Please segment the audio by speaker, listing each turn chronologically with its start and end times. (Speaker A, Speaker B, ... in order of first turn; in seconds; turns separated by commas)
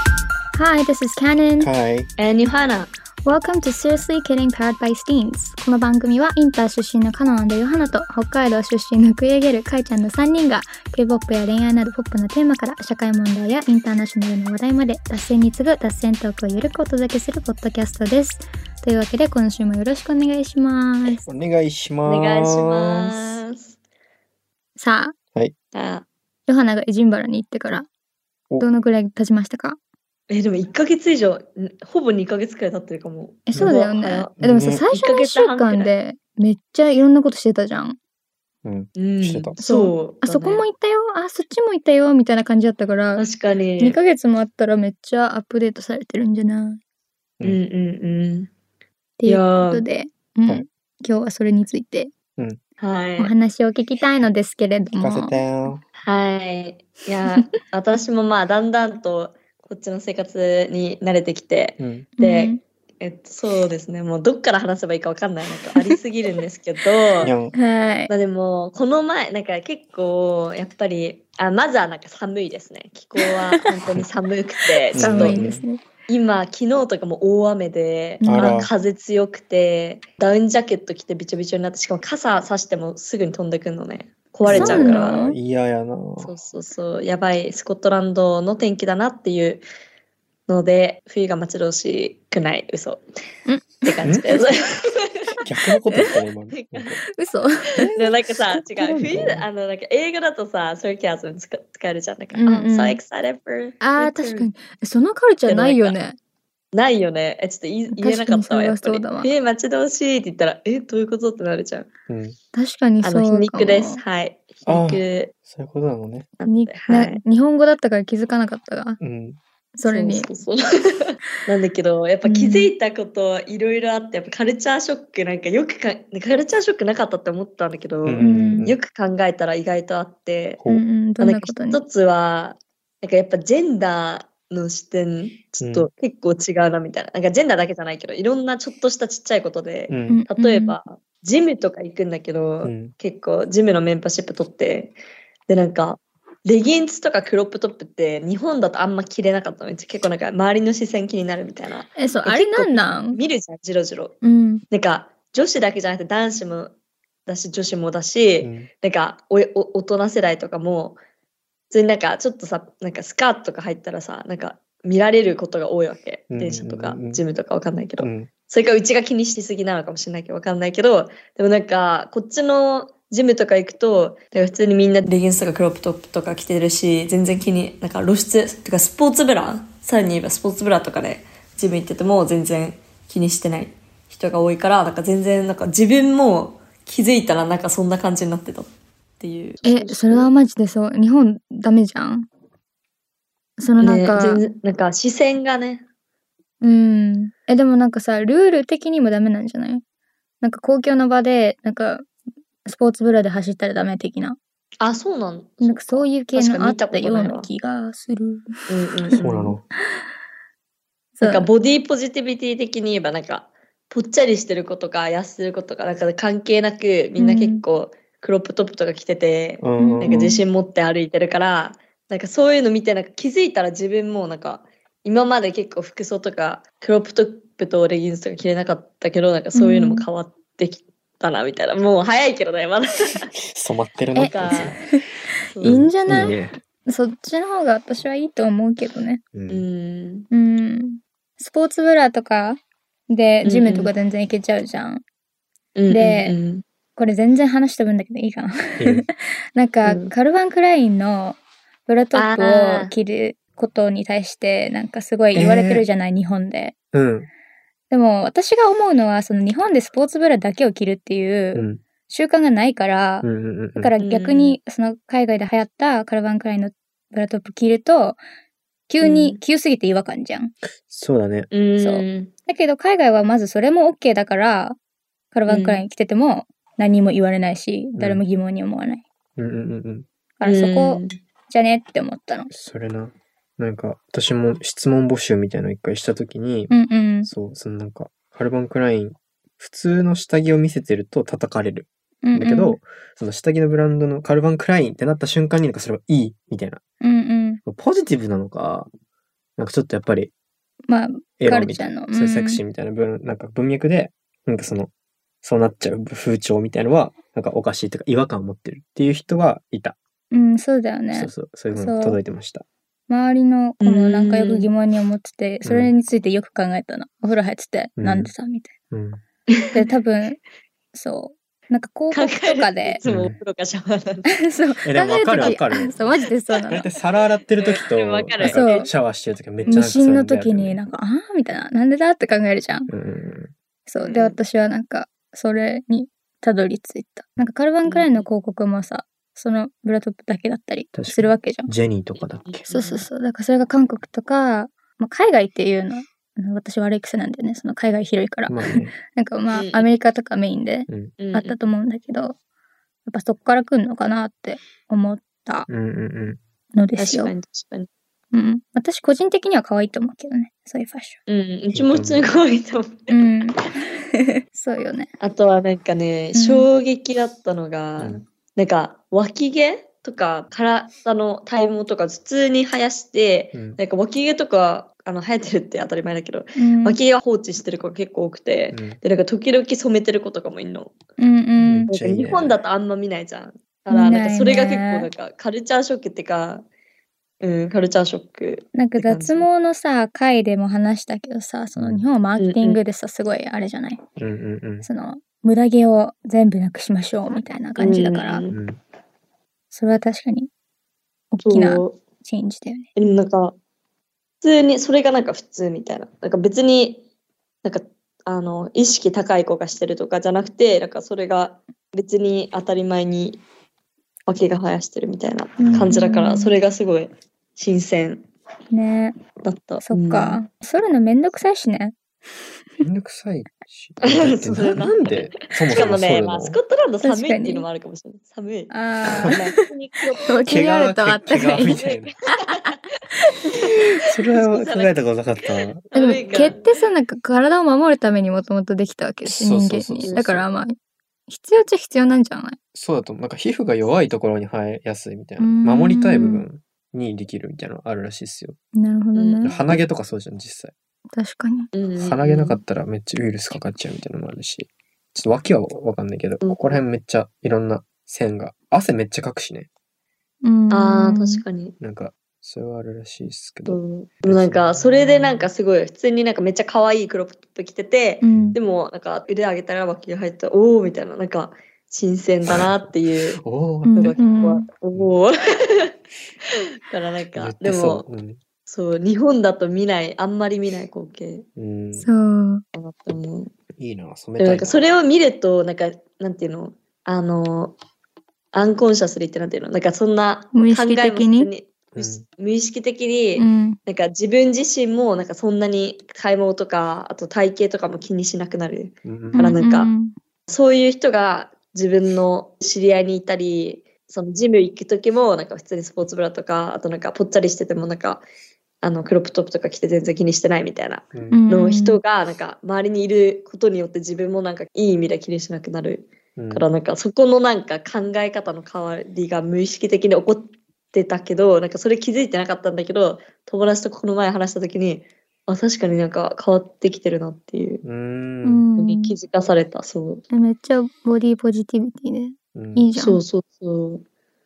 Speaker A: 0.5-1.7, Speaker B: 1.6-2.1, Speaker C: 2.2-2.9, Speaker A: 3.2-21.2, Speaker B: 21.2-23.4, Speaker C: 22.1-23.8, Speaker A: 24.8-25.1, Speaker C: 25.7-26.1, Speaker A: 26.5-27.9, Speaker A: 28.6-29.8, Speaker C: 30.3-34.3, Speaker A: 33.5-38.0, Speaker B: 34.4-34.9, Speaker C: 34.9-35.9, Speaker B: 38.6-39.6, Speaker C: 39.0-40.6, Speaker A: 39.6-43.3, Speaker C: 43.2-44.0, Speaker A: 43.8-46.8, Speaker C: 47.4-48.5, Speaker A: 49.2-52.1, Speaker C: 49.3-49.8, Speaker C: 52.8-53.3, Speaker A: 53.2-55.5, Speaker B: 55.0-55.8, Speaker C: 56.0-67.3, Speaker B: 61.8-62.1, Speaker A: 62.2-62.6, Speaker B: 67.2-67.5, Speaker A: 67.5-68.1, Speaker C: 68.1-75.5, Speaker A: 74.8-75.8, Speaker B: 75.0-75.6, Speaker C: 76.1-85.2, Speaker A: 78.2-78.7, Speaker B: 78.3-78.7, Speaker B: 84.5-86.3, Speaker A: 84.5-85.4, Speaker C: 86.2-89.6, Speaker C: 90.5-93.0, Speaker A: 93.5-94.0, Speaker C: 93.8-95.4, Speaker B: 94.0-94.4, Speaker B: 95.4-97.0, Speaker C: 96.5-96.9, Speaker A: 97.1-97.9, Speaker B: 97.8-98.2, Speaker C: 98.0-104.5, Speaker A: 98.8-99.1, Speaker B: 98.8-99.5, Speaker A: 102.3-103.0, Speaker A: 103.8-106.2, Speaker C: 105.5-106.0, Speaker C: 106.7-111.9, Speaker A: 107.9-109.3, Speaker B: 112.1-112.4, Speaker A: 112.5-114.0, Speaker C: 113.0-115.3, Speaker B: 114.7-116.3, Speaker C: 116.4-117.2, Speaker A: 116.5-119.0, Speaker B: 119.0-119.4, Speaker A: 119.8-120.3, Speaker C: 119.9-130.6, Speaker A: 122.2-122.7, Speaker B: 128.1-128.8, Speaker A: 128.2-128.7, Speaker A: 130.7-131.8, Speaker C: 131.2-144.9, Speaker B: 135.6-135.9, Speaker B: 139.9-140.2, Speaker A: 140.1-140.8, Speaker B: 142.6-142.9, Speaker C: 145.5-154.2, Speaker A: 152.0-153.2, Speaker A: 154.2-154.6, Speaker C: 154.7-156.7, Speaker C: 157.3-161.0, Speaker B: 158.4-158.7, Speaker C: 161.7-190.3, Speaker B: 166.3-167.2, Speaker B: 168.0-168.3, Speaker A: 189.7-192.3, Speaker A: 193.6-194.4, Speaker C: 193.8-195.8, Speaker A: 196.6-199.8, Speaker A: 200.4-202.1, Speaker A: 202.7-204.4, Speaker C: 204.8-207.5, Speaker A: 205.6-209.2, Speaker C: 208.7-209.6, Speaker B: 209.2-209.6, Speaker A: 211.2-211.5, Speaker C: 211.2-233.3, Speaker A: 217.2-217.6, Speaker B: 219.6-220.4, Speaker A: 219.8-220.4, Speaker A: 229.5-230.1, Speaker B: 233.4-234.9, Speaker C: 234.2-234.8, Speaker A: 234.2-235.1, Speaker C: 235.5-236.3, Speaker A: 235.6-239.2, Speaker B: 235.6-236.6, Speaker B: 239.3-239.6, Speaker C: 239.5-240.3, Speaker A: 240.3-245.0, Speaker C: 243.4-243.9, Speaker C: 245.8-246.6, Speaker A: 245.9-246.4, Speaker A: 247.0-256.7, Speaker B: 248.8-249.1, Speaker C: 249.8-250.1, Speaker C: 252.1-252.9, Speaker B: 255.3-255.9, Speaker B: 256.9-257.3, Speaker A: 257.9-268.2, Speaker B: 261.6-261.8, Speaker B: 263.2-263.9, Speaker C: 264.0-264.6, Speaker A: 268.9-270.6, Speaker C: 269.0-269.4, Speaker B: 270.9-271.5, Speaker C: 271.5-272.3, Speaker A: 271.8-274.8, Speaker A: 275.3-279.0, Speaker C: 275.5-275.8, Speaker B: 279.4-280.1, Speaker A: 280.4-282.5, Speaker C: 280.4-281.2, Speaker B: 282.5-296.8, Speaker A: 286.7-287.3, Speaker A: 292.2-292.8, Speaker A: 297.0-297.6, Speaker B: 297.7-298.9, Speaker B: 299.6-300.3, Speaker A: 300.9-302.6, Speaker B: 301.4-304.9, Speaker B: 305.4-310.0, Speaker A: 310.3-312.2, Speaker B: 311.1-312.7, Speaker A: 313.1-318.7, Speaker C: 313.8-314.7, Speaker B: 315.6-315.9, Speaker B: 318.0-318.3, Speaker B: 318.9-319.2, Speaker C: 319.5-319.9, Speaker A: 319.7-320.4, Speaker A: 320.9-323.0, Speaker C: 322.1-324.4, Speaker B: 323.1-323.4, Speaker A: 324.3-326.9, Speaker B: 324.9-326.0, Speaker B: 326.7-330.8, Speaker C: 327.6-328.8, Speaker A: 328.4-328.9, Speaker C: 329.6-329.9, Speaker A: 329.7-332.9, Speaker B: 332.9-333.5, Speaker A: 333.9-341.7, Speaker C: 334.0-334.4, Speaker C: 337.9-338.3, Speaker B: 340.9-342.7, Speaker C: 342.5-343.1, Speaker A: 342.7-352.4, Speaker B: 348.5-349.0, Speaker C: 349.5-349.9, Speaker B: 350.9-351.1, Speaker C: 351.2-351.6, Speaker A: 353.1-355.7, Speaker B: 355.7-356.4, Speaker A: 356.8-357.3, Speaker C: 357.0-357.9, Speaker A: 358.3-361.2, Speaker C: 361.3-363.3, Speaker B: 361.7-362.3, Speaker A: 363.1-365.1, Speaker C: 365.2-381.0, Speaker A: 366.4-366.7, Speaker B: 368.0-368.2, Speaker A: 376.6-377.0, Speaker B: 378.7-379.0, Speaker A: 381.2-381.9, Speaker B: 381.6-382.6, Speaker C: 381.9-386.7, Speaker A: 383.9-385.1, Speaker C: 387.4-389.5, Speaker A: 388.8-394.0, Speaker B: 391.8-392.1, Speaker C: 392.4-392.8, Speaker B: 394.2-394.9, Speaker A: 394.8-398.4, Speaker C: 397.8-398.6, Speaker B: 398.5-398.8, Speaker A: 399.7-400.5, Speaker A: 401.3-402.9, Speaker C: 401.4-402.0, Speaker C: 403.0-403.6, Speaker C: 404.4-407.0, Speaker C: 407.6-413.4, Speaker C: 414.3-418.3, Speaker A: 415.6-416.5, Speaker B: 415.6-415.9, Speaker A: 418.7-419.2, Speaker C: 419.4-420.4, Speaker A: 419.9-422.0, Speaker B: 422.8-426.6, Speaker C: 424.1-430.3, Speaker A: 427.0-427.7, Speaker A: 428.7-429.6, Speaker B: 429.1-429.4, Speaker A: 430.2-431.8, Speaker B: 430.4-432.1, Speaker C: 431.7-432.7, Speaker A: 432.4-432.8, Speaker C: 433.4-433.7, Speaker B: 434.1-435.8, Speaker C: 434.3-434.9, Speaker C: 435.9-436.7, Speaker A: 435.9-440.8, Speaker B: 439.2-440.4, Speaker C: 440.0-440.3, Speaker A: 441.3-442.6, Speaker B: 442.7-448.6, Speaker A: 445.4-446.4, Speaker A: 448.8-449.6, Speaker C: 449.2-449.6, Speaker B: 449.4-450.7, Speaker A: 451.1-451.7, Speaker C: 451.7-452.6, Speaker B: 452.0-459.7, Speaker C: 456.4-456.8, Speaker A: 460.4-461.4, Speaker C: 460.7-461.8, Speaker B: 461.8-465.5, Speaker C: 463.7-473.4, Speaker A: 468.2-468.6, Speaker B: 468.3-468.6, Speaker B: 473.4-474.2, Speaker A: 473.9-474.7, Speaker C: 474.0-475.9, Speaker C: 476.5-478.1, Speaker B: 477.4-478.4, Speaker C: 478.6-481.5, Speaker B: 481.6-482.1, Speaker A: 482.0-482.6, Speaker C: 482.8-483.5, Speaker B: 483.8-484.8, Speaker C: 484.4-487.8, Speaker C: 488.5-499.9, Speaker A: 490.5-491.5, Speaker B: 491.9-492.3, Speaker A: 493.4-493.8, Speaker B: 499.0-499.6, Speaker A: 499.3-500.1, Speaker C: 500.5-508.2, Speaker C: 508.8-527.8, Speaker B: 511.1-511.4, Speaker A: 511.3-512.0, Speaker B: 516.4-516.7, Speaker B: 527.8-528.6, Speaker A: 528.4-529.1, Speaker C: 528.8-530.2, Speaker A: 530.3-533.2, Speaker B: 532.5-532.9, Speaker C: 533.0-534.0